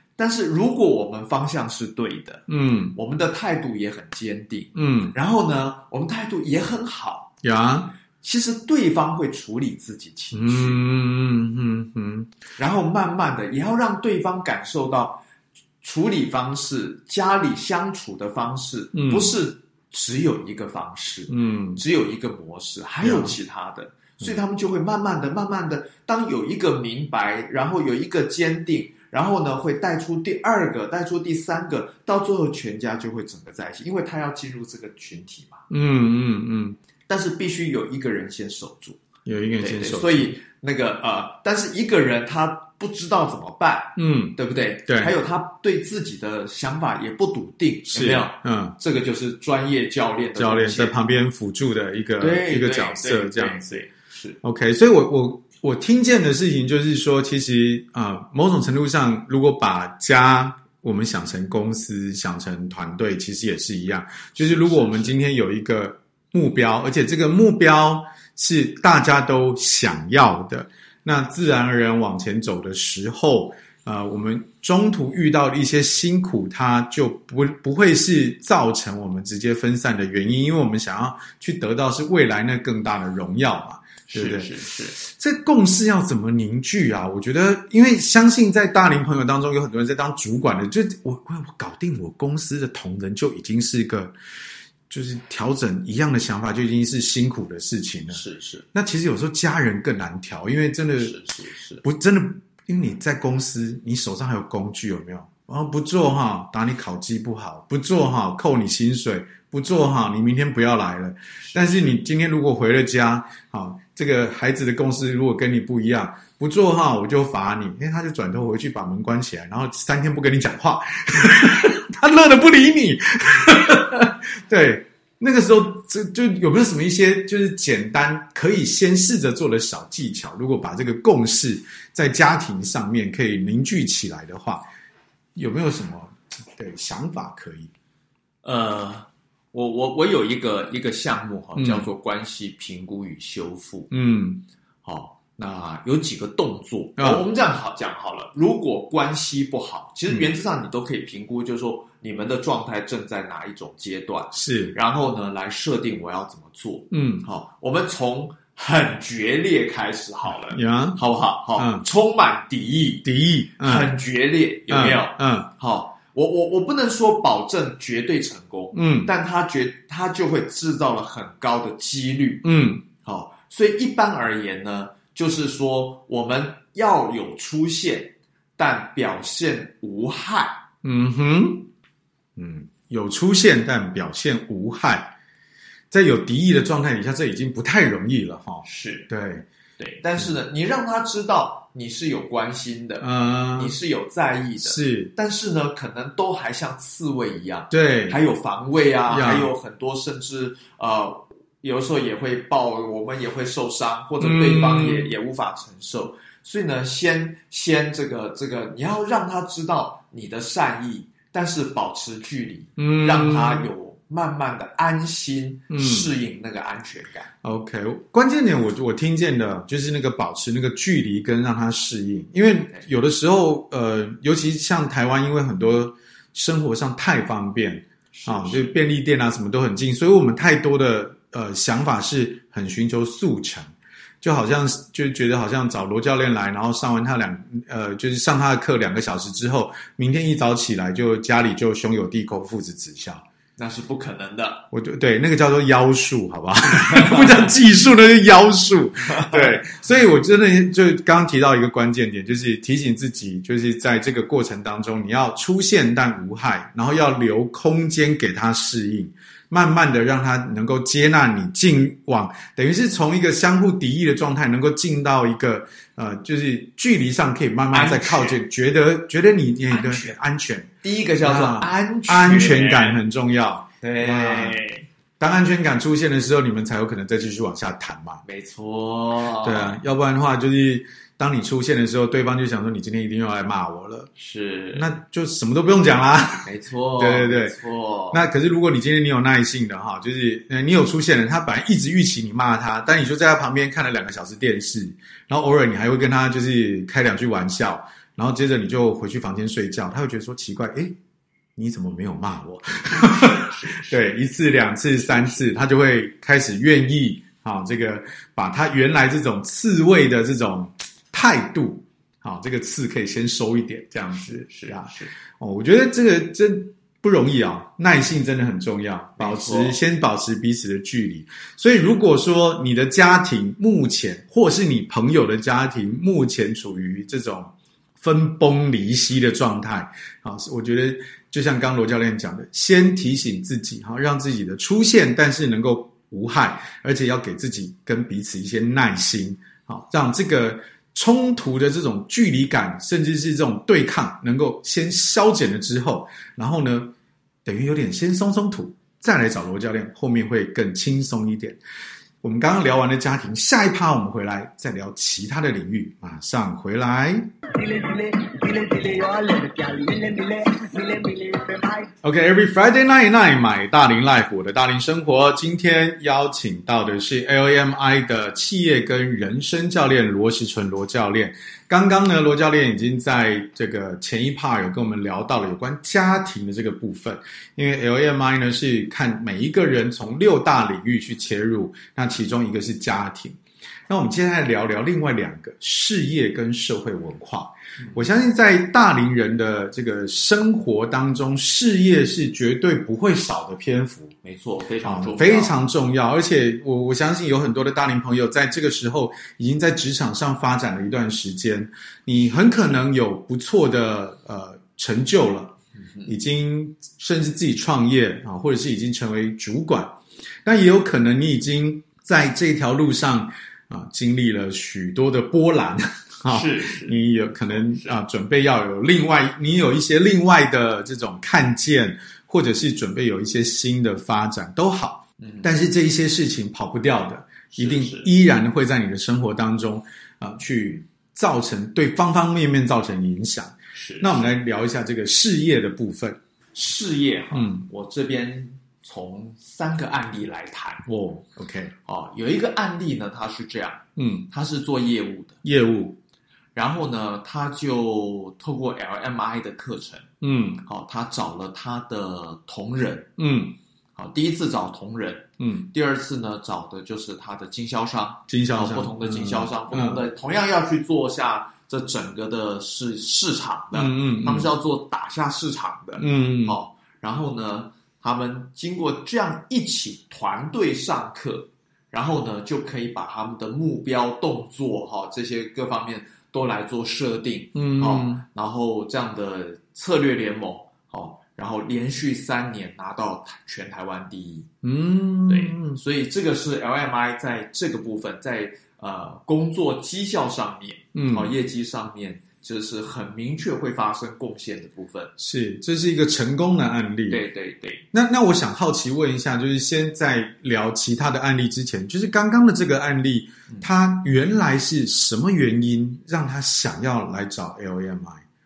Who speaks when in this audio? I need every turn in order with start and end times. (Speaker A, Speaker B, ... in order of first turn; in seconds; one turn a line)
Speaker A: 0.2-7.3
Speaker B: 2.5-3.0
Speaker B: 4.7-5.1
Speaker B: 7.4-7.9
Speaker A: 8.2-10.9
Speaker B: 10.3-12.3
Speaker A: 12.6-15.2
Speaker A: 15.8-35.6
Speaker B: 18.9-19.3
Speaker B: 21.3-21.8
Speaker B: 23.0-23.4
Speaker B: 35.7-36.8
Speaker A: 37.1-39.0
Speaker B: 39.2-40.4
Speaker A: 39.6-50.9
Speaker B: 44.0-45.1
Speaker B: 47.9-48.8
Speaker B: 50.4-53.8
Speaker A: 52.2-54.4
Speaker B: 54.4-94.1
Speaker A: 64.4-65.1
Speaker A: 84.1-85.0
Speaker B: 94.9-98.2
Speaker A: 98.1-98.7
Speaker B: 98.7-101.2
Speaker A: 101.0-101.8
Speaker B: 101.8-134.7
Speaker A: 111.4-111.9
Speaker B: 135.3-137.7
Speaker A: 138.4-143.9
Speaker B: 141.6-141.9
Speaker B: 143.9-144.4
Speaker A: 144.8-163.1
Speaker B: 147.0-147.2
Speaker B: 154.3-154.8
Speaker B: 156.9-157.2
Speaker B: 160.5-161.0
Speaker B: 161.6-161.8
Speaker B: 163.0-163.9
Speaker A: 163.6-180.6
Speaker B: 164.7-165.5
Speaker B: 168.7-169.1
Speaker B: 172.4-172.8
Speaker B: 180.8-181.7
Speaker B: 182.3-185.1
Speaker B: 185.9-189.4
Speaker A: 188.6-189.1
Speaker A: 189.8-217.3
Speaker B: 193.0-193.8
Speaker B: 194.6-195.1
Speaker B: 197.7-198.2
Speaker B: 199.1-199.5
Speaker B: 204.2-205.1
Speaker B: 212.8-213.7
Speaker B: 215.7-216.1
Speaker B: 217.4-233.7
Speaker A: 228.1-228.7
Speaker B: 234.2-243.2
Speaker A: 243.6-244.6
Speaker B: 244.7-270.7
Speaker A: 246.8-247.4
Speaker A: 249.1-249.6
Speaker A: 267.7-268.4
Speaker A: 269.7-270.1
Speaker A: 270.8-273.0
Speaker B: 271.2-274.6
Speaker A: 273.8-274.8
Speaker B: 275.2-278.2
Speaker A: 278.2-279.8
Speaker B: 279.4-284.1
Speaker A: 284.1-284.9
Speaker B: 284.7-287.5
Speaker A: 286.4-288.2
Speaker B: 288.1-301.0
Speaker B: 301.6-346.9
Speaker A: 303.0-304.1
Speaker A: 305.0-305.4
Speaker A: 314.2-315.1
Speaker A: 319.2-319.8
Speaker B: 347.4-351.6
Speaker B: 352.2-357.3
Speaker C: 357.5-361.9
Speaker B: 362.0-383.4
Speaker B: 383.9-394.1
Speaker A: 394.2-395.6
Speaker B: 394.8-436.2
Speaker A: 416.3-418.0
Speaker A: 425.2-425.5
Speaker A: 427.5-428.1
Speaker A: 433.7-434.3
Speaker A: 436.5-440.9
Speaker B: 437.3-437.6
Speaker B: 440.9-441.7
Speaker A: 441.9-445.4
Speaker B: 443.9-444.3
Speaker B: 445.4-446.0
Speaker A: 446.5-450.1
Speaker B: 450.2-450.6
Speaker A: 450.6-453.1
Speaker B: 453.2-453.6
Speaker A: 453.9-484.5
Speaker B: 455.4-455.7
Speaker B: 458.3-460.0
Speaker B: 463.7-464.5
Speaker B: 466.0-466.6
Speaker B: 477.5-478.2
Speaker B: 484.6-485.8
Speaker A: 485.3-495.1
Speaker B: 490.9-491.3
Speaker B: 495.2-497.2
Speaker A: 497.1-497.8
Speaker B: 497.9-508.2